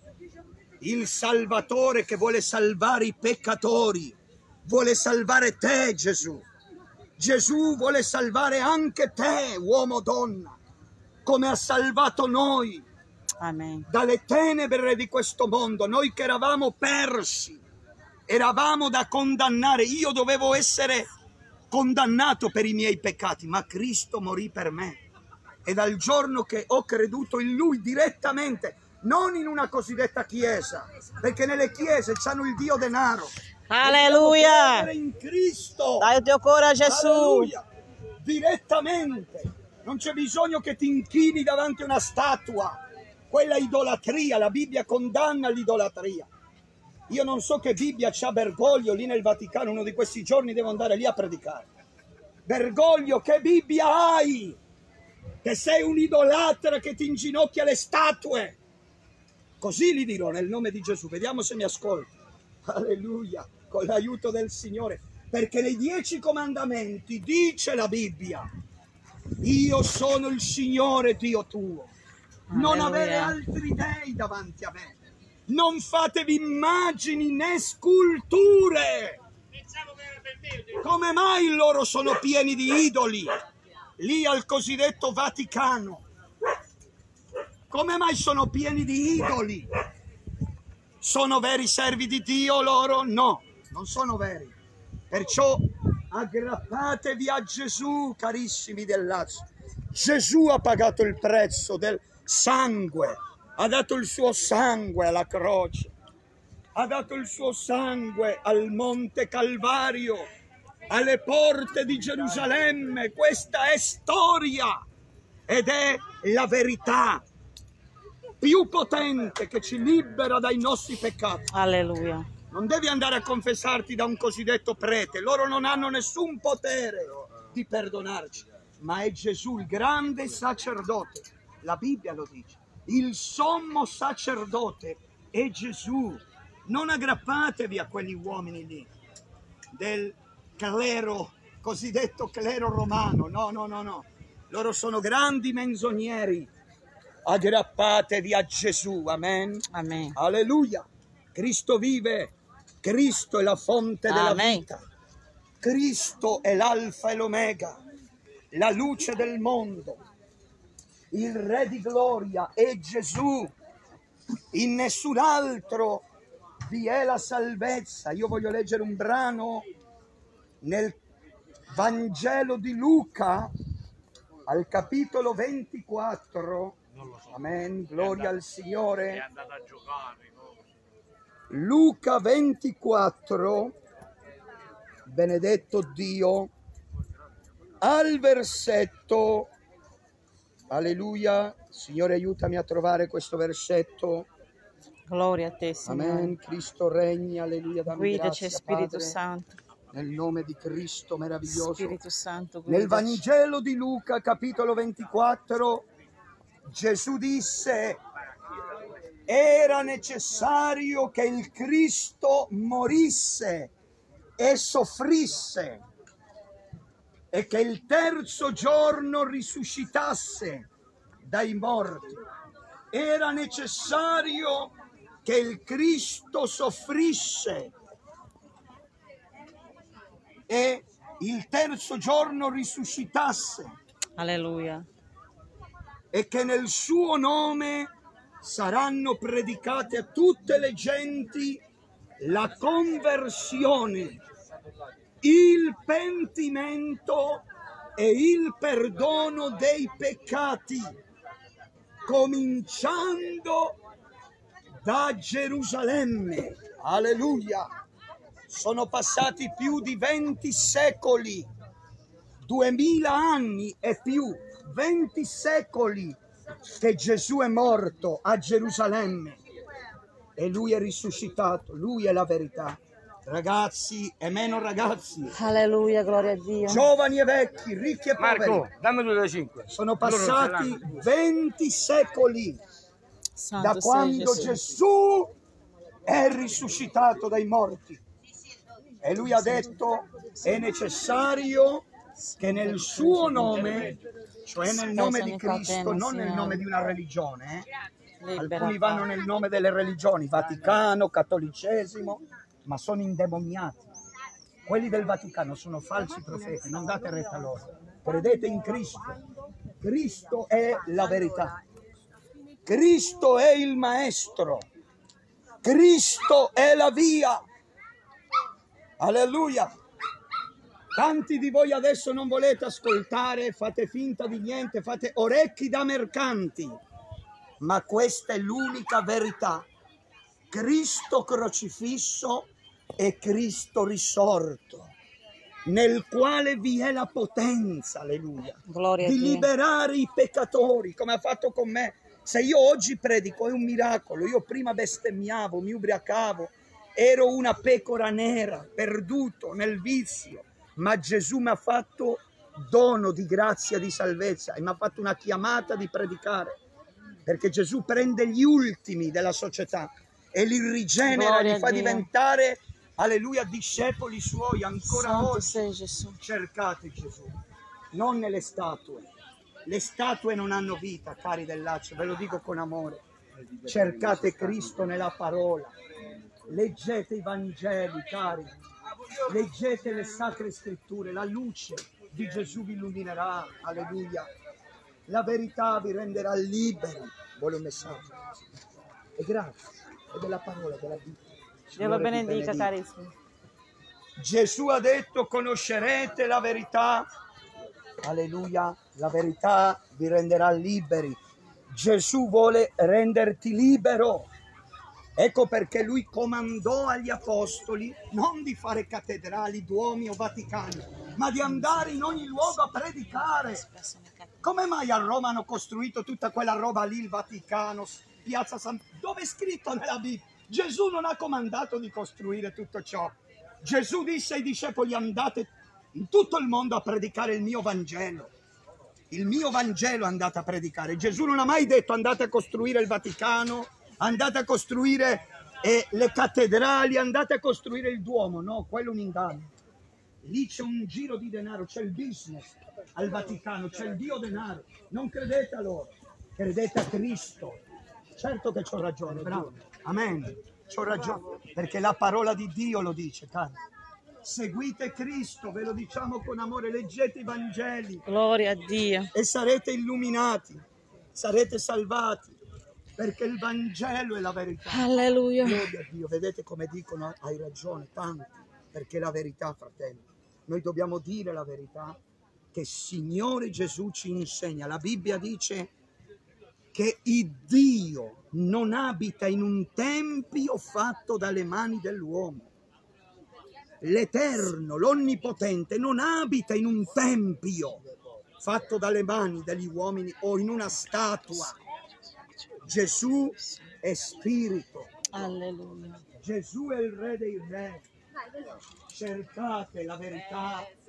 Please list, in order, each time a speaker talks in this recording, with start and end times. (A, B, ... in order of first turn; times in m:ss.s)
0:00.8-0:06.4 A
0:07.2-0:10.6 A
0:11.2-0:12.8 A
0:13.4-0:13.9 B
0:13.8-0:17.6 A
0:18.3-0:21.1 A
0:21.7-0:25.0 A
0:25.6-0:36.1 A
0:33.7-0:34.9 B
0:36.0-0:37.5 B
0:36.8-0:37.6 A
0:38.2-0:46.3 A
0:47.1-0:51.7 A
0:52.4-0:54.6 A
0:55.4-0:58.6 A
0:59.6-1:02.1 A
1:02.6-1:08.5 A
1:09.4-1:11.9 A
1:12.5-1:13.4 B
1:12.5-1:15.0 A
1:15.5-1:19.2 A
1:20.6-1:23.4 A
1:24.0-1:26.0 A
1:27.7-1:29.7 A
1:31.0-1:34.6 A
1:35.1-1:45.9 A
1:46.7-1:50.3 A
1:50.9-1:54.8 A
1:55.5-1:57.2 A
1:58.4-2:01.5 A
2:01.5-2:02.3 B
2:02.5-2:18.9 A
2:19.7-2:26.5 A
2:27.2-2:34.8 A
2:29.7-2:30.2 B
2:34.1-2:34.6 B
2:35.6-2:37.8 A
2:38.5-2:40.0 A
2:41.1-2:43.5 A
2:44.5-2:46.0 A
2:46.6-2:49.6 A
2:50.6-2:51.0 A
2:51.7-2:53.5 A
2:54.5-2:59.2 A
3:01.5-3:03.8 A
3:05.0-3:06.5 A
3:07.8-3:09.5 A
3:10.7-3:14.3 A
3:15.1-3:16.3 B
3:15.8-3:19.2 A
3:17.9-3:19.6 B
3:19.9-3:22.0 A
3:21.5-3:23.2 B
3:22.7-3:25.8 A
3:26.6-3:28.0 A
3:29.3-3:33.7 A
3:34.4-3:35.8 A
3:37.3-3:40.7 A
3:41.2-3:42.2 A
3:42.9-3:44.7 A
3:45.2-3:47.7 A
3:50.5-3:53.8 A
3:54.2-3:54.9 B
3:56.1-4:01.6 A
4:02.2-4:04.2 A
4:05.2-4:07.4 A
4:08.0-4:11.0 A
4:12.0-4:13.8 A
4:14.8-4:17.7 A
4:18.5-4:21.5 A
4:22.4-4:26.2 A
4:26.8-4:29.4 A
4:30.4-4:35.4 A
4:35.3-4:36.8 B
4:36.6-4:38.7 A
4:38.2-4:40.8 C
4:39.7-4:42.6 A
4:43.4-4:44.8 B
4:43.6-4:45.3 A
4:46.1-4:48.0 A
4:49.0-4:51.9 A
4:49.2-4:49.7 B
4:52.2-4:54.0 B
4:52.4-4:57.7 A
4:54.6-4:56.7 B
4:58.2-4:59.1 B
4:58.3-5:03.8 A
5:04.6-5:09.2 A
5:09.8-5:11.6 A
5:12.6-5:14.6 A
5:15.6-5:17.4 A
5:19.0-5:19.7 A
5:20.9-5:26.8 A
5:27.6-5:29.7 A
5:30.5-5:34.9 A
5:35.6-5:56.6 A
5:38.7-5:39.5 B
5:57.2-6:05.6 A
6:01.0-6:02.1 B
6:04.8-6:06.2 B
6:06.2-6:07.4 A
6:07.9-6:09.1 A
6:09.6-6:13.0 A
6:13.6-6:15.7 A
6:16.5-6:18.5 A
6:19.2-6:24.3 A
6:25.1-6:28.2 A
6:29.2-6:29.6 A
6:30.1-6:32.7 A
6:31.8-6:33.1 B
6:34.2-6:37.0 A
6:38.0-6:41.2 A
6:41.7-6:44.3 A
6:45.2-6:53.6 A
6:51.4-6:54.4 B
6:54.4-7:08.3 A
7:09.1-7:19.5 A
7:20.2-7:27.6 A
7:28.1-7:33.6 A
7:34.2-7:38.0 A
7:38.1-7:39.1 B
7:39.1-7:40.6 A
7:41.1-7:42.4 A
7:43.0-7:44.9 A
7:44.7-7:45.7 B
7:45.4-7:52.0 A
7:52.5-7:55.7 A
7:56.7-8:02.5 A
8:03.8-8:07.8 A
8:08.4-8:11.6 A
8:12.6-8:14.9 A
8:15.1-8:16.0 B
8:16.2-8:17.8 A
8:18.8-8:20.7 A